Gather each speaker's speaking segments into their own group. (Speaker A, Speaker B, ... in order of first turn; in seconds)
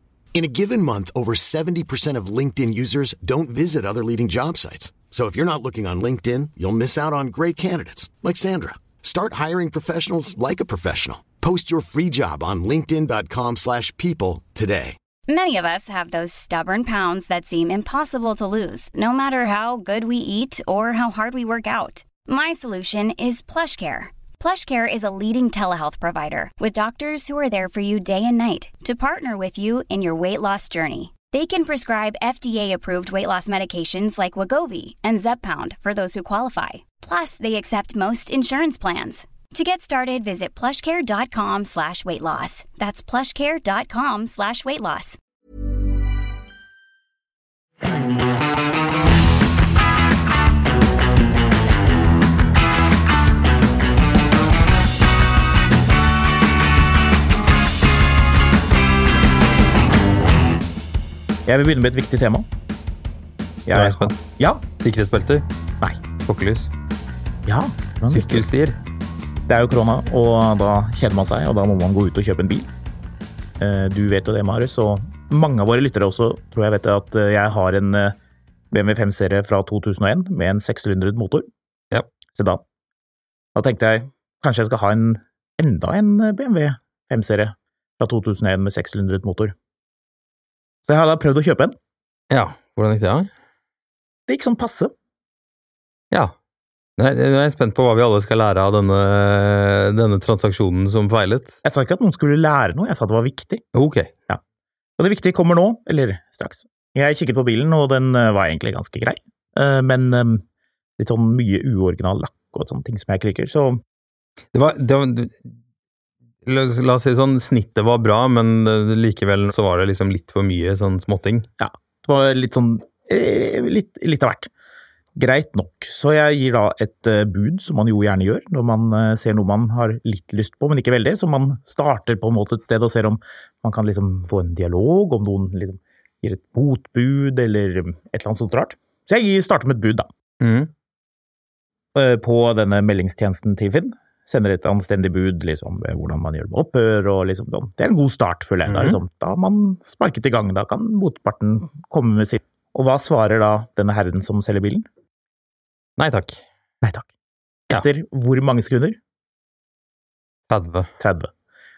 Speaker A: 0.3-15.0
Speaker B: 15.3-45.2
Speaker C: 61.5-62.5, 63.7-64.6, 67.5-68.4, 69.5-72.7, 73.6-78.2, 78.7-81.5, 82.3-82.6, 83.5-89.5, 90.9-91.8, 94.3-94.9, 101.6-103.6, 105.0-110.4, 111.0-113.8, 121.6-124.5, 125.2-140.1, 141.9-154.8, 157.7-159.0, 161.0-161.3
Speaker D: 63.7-64.1, 64.8-65.5, 66.2-66.7, 68.1-68.8, 92.3-93.3, 97.0-101.5, 103.7-104.1, 114.5-115.5, 116.4-121.5, 140.4-140.7, 148.7-149.0, 156.0-156.4, 160.5-160.9